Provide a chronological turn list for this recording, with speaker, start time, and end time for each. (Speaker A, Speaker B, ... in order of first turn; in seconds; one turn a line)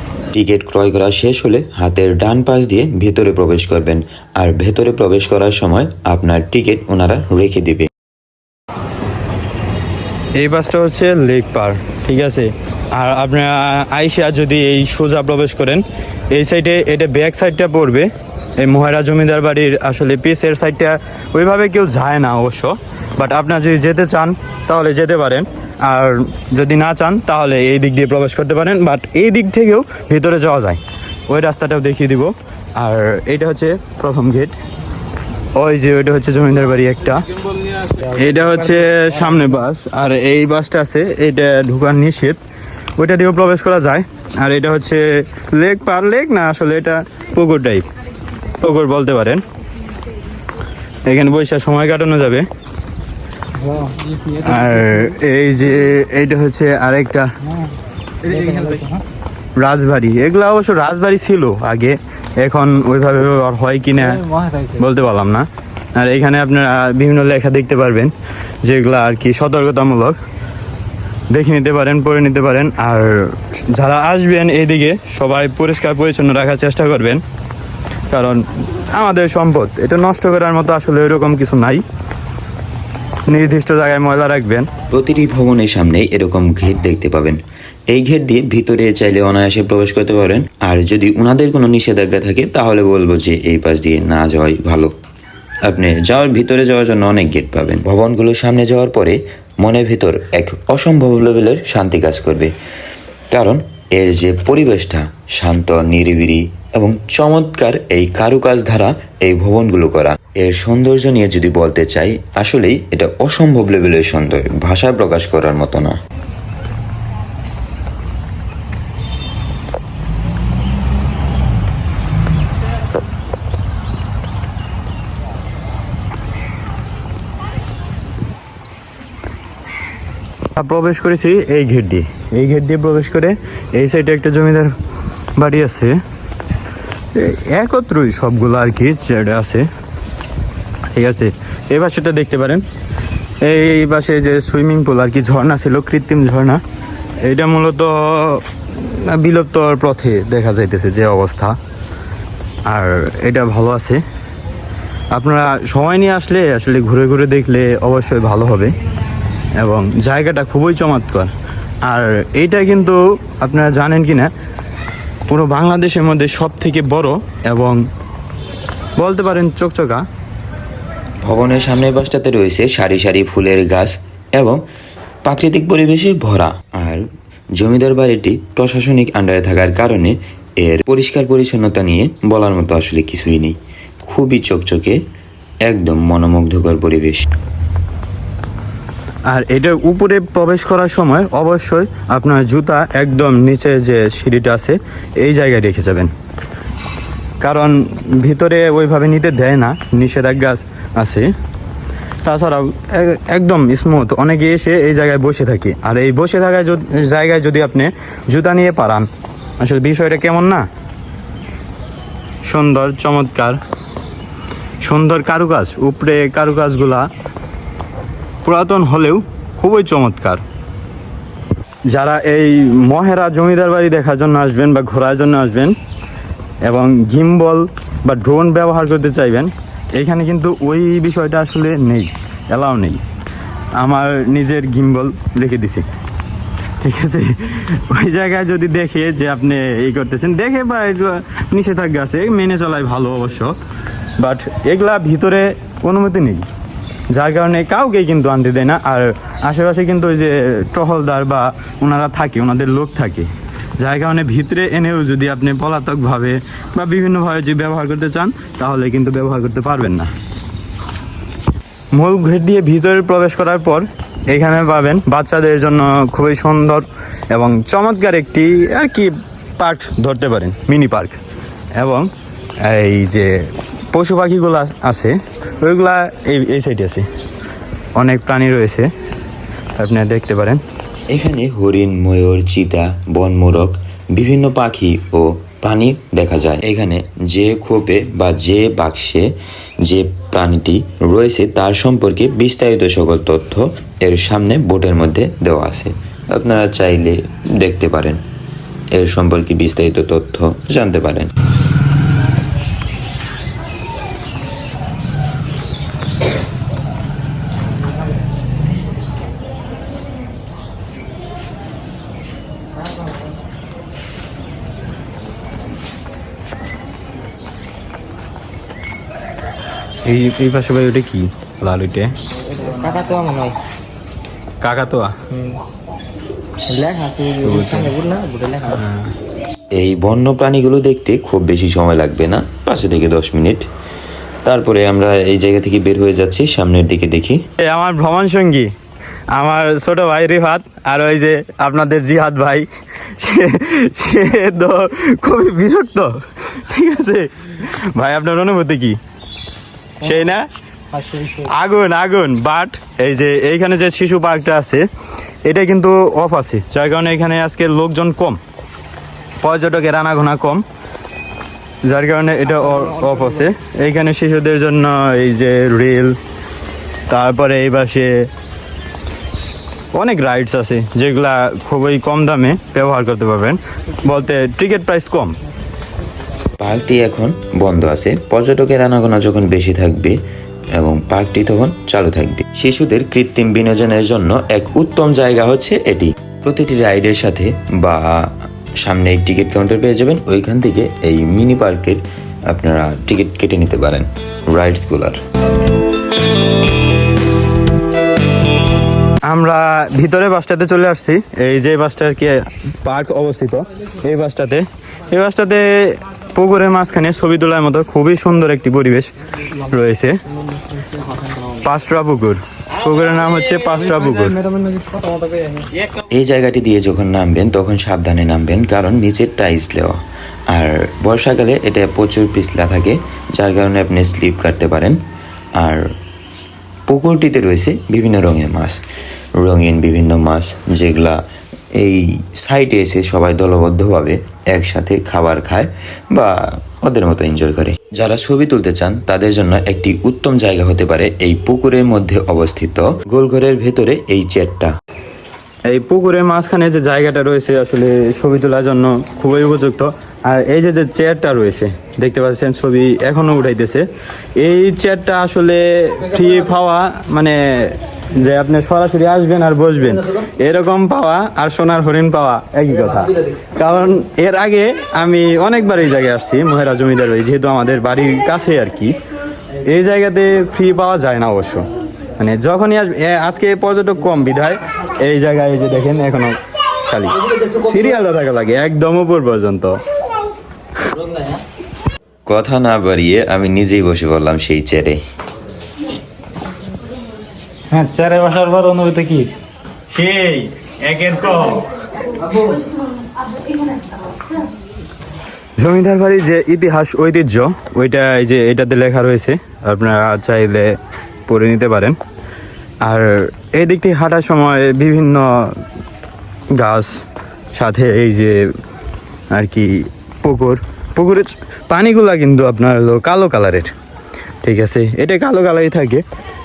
Speaker A: 0.3-7.9
Speaker B: 10.4-34.6
Speaker B: 35.5-37.2
Speaker B: 38.0-42.4
Speaker B: 43.0-47.9
Speaker B: 48.6-49.4
Speaker B: 51.0-52.5
Speaker C: 53.6-54.4
Speaker B: 54.4-57.3
Speaker C: 58.2-59.0
Speaker B: 59.6-64.2
Speaker C: 64.1-64.8
Speaker B: 64.8-68.1
Speaker B: 68.6-70.2
Speaker B: 71.3-77.2
Speaker B: 78.1-81.8
Speaker B: 83.3-84.7
Speaker A: 84.9-94.9
Speaker A: 95.6-102.5
Speaker A: 103.3-116.0
Speaker B: 130.6-134.7
Speaker B: 135.4-136.0
Speaker B: 137.1-139.7
Speaker B: 140.9-142.6
Speaker B: 143.4-146.6
Speaker B: 147.2-151.6
Speaker B: 152.7-154.0
Speaker B: 155.1-158.7
Speaker B: 159.6-161.3
Speaker B: 161.8-164.3
Speaker B: 165.3-167.8
Speaker B: 169.0-170.0
Speaker A: 171.2-174.6
Speaker A: 175.2-185.0
Speaker A: 185.6-187.3
Speaker B: 189.3-196.1
Speaker B: 197.4-201.3
Speaker B: 202.2-209.1
Speaker B: 209.6-210.7
Speaker B: 212.5-213.6
Speaker B: 214.8-217.1
Speaker B: 218.4-220.4
Speaker B: 221.9-225.7
Speaker B: 226.6-233.0
Speaker B: 233.8-235.8
Speaker B: 236.8-243.6
Speaker B: 244.2-246.4
Speaker B: 247.1-260.1
Speaker B: 261.9-271.2
Speaker B: 271.8-272.1
Speaker B: 272.6-277.1
Speaker B: 277.9-278.9
Speaker B: 279.8-280.6
Speaker A: 281.1-298.2
Speaker A: 298.9-301.3
Speaker B: 320.1-322.1
Speaker C: 322.4-323.6
Speaker B: 324.6-325.2
Speaker C: 326.7-328.8
Speaker B: 327.4-327.9
Speaker B: 328.8-329.1
Speaker A: 329.7-333.6
Speaker A: 334.4-337.4
Speaker B: 337.6-338.7
Speaker B: 339.3-349.0
Speaker B: 350.0-350.4
Speaker C: 350.9-351.5
Speaker B: 351.5-354.9
Speaker B: 355.4-358.4
Speaker B: 359.4-360.6
Speaker B: 361.8-366.2
Speaker B: 367.1-368.3
Speaker B: 369.9-375.4
Speaker A: 376.6-380.2
Speaker A: 380.7-395.2
Speaker B: 399.2-409.1
Speaker B: 409.7-410.2
Speaker B: 411.6-414.5
Speaker C: 414.6-415.4
Speaker A: 416.1-425.0
Speaker A: 425.6-425.9
Speaker A: 426.9-428.8
Speaker A: 429.4-444.7
Speaker B: 445.7-453.9
Speaker B: 454.4-469.0
Speaker B: 469.6-471.6
Speaker B: 472.2-479.8
Speaker A: 482.2-485.0
Speaker C: 487.7-489.3
Speaker B: 489.9-491.6
Speaker B: 495.6-502.0
Speaker B: 502.8-505.6
Speaker B: 506.5-507.0
Speaker B: 507.5-508.5
Speaker B: 509.3-513.7
Speaker B: 514.4-516.0